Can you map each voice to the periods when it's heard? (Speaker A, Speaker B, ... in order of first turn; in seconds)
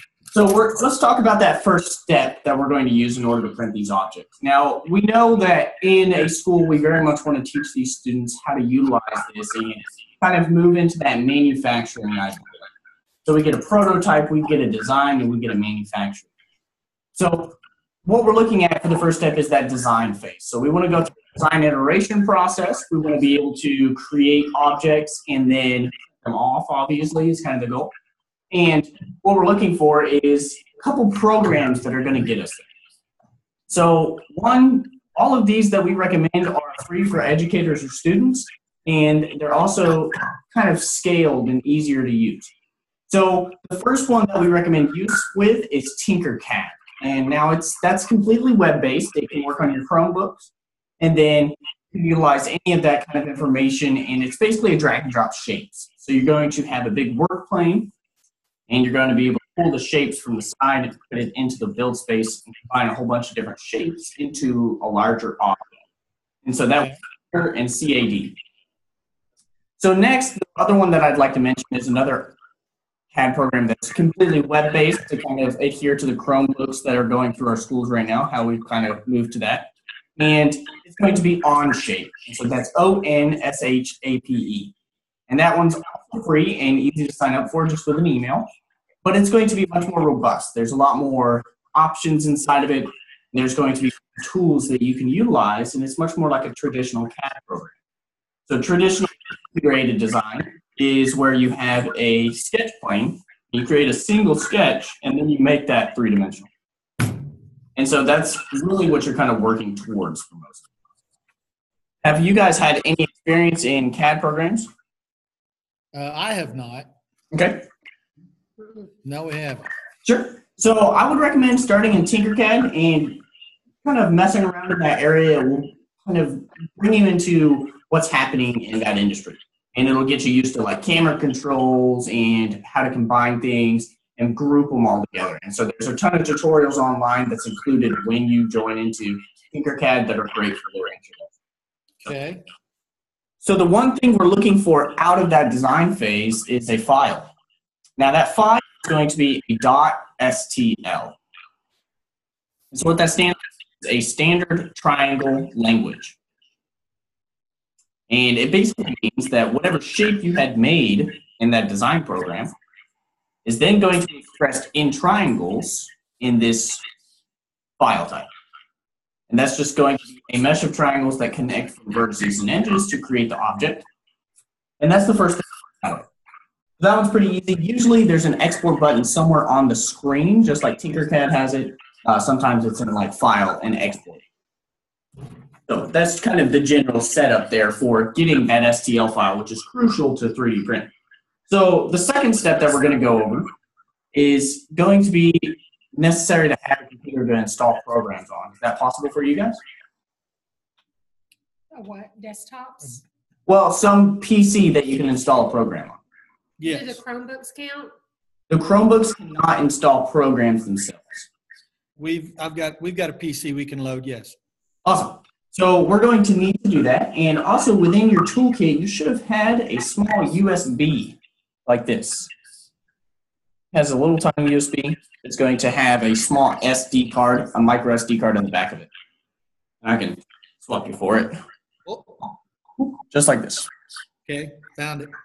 Speaker A: 0.3-12.6, 13.2-16.3, 17.1-27.9, 28.5-32.7, 33.7-42.5, 43.1-57.9, 58.7-65.7, 66.4-68.3, 69.8-72.3, 73.1-84.7, 85.3-88.5, 89.0-97.7, 98.5-106.5, 107.8-110.6, 112.0-114.7, 117.3-117.7, 120.0-123.2, 123.8-141.3, 143.4-147.3, 148.0-151.2, 152.7-156.2, 158.1-162.5, 163.5-166.8, 167.8-168.3, 169.3-173.9, 174.8-176.1, 176.8-184.2, 185.7-190.9, 191.5-193.5, 194.1-199.6, 203.5-206.0, 208.5-211.3, 214.8-222.3, 223.7-228.9, 229.8-231.4, 232.8-233.7
Speaker B: 115.9-116.9, 119.0-119.7, 142.1-142.4, 206.6-207.0, 212.0-214.4, 231.9-232.2, 234.2-235.1
Speaker C: 201.7-203.0, 206.7-207.9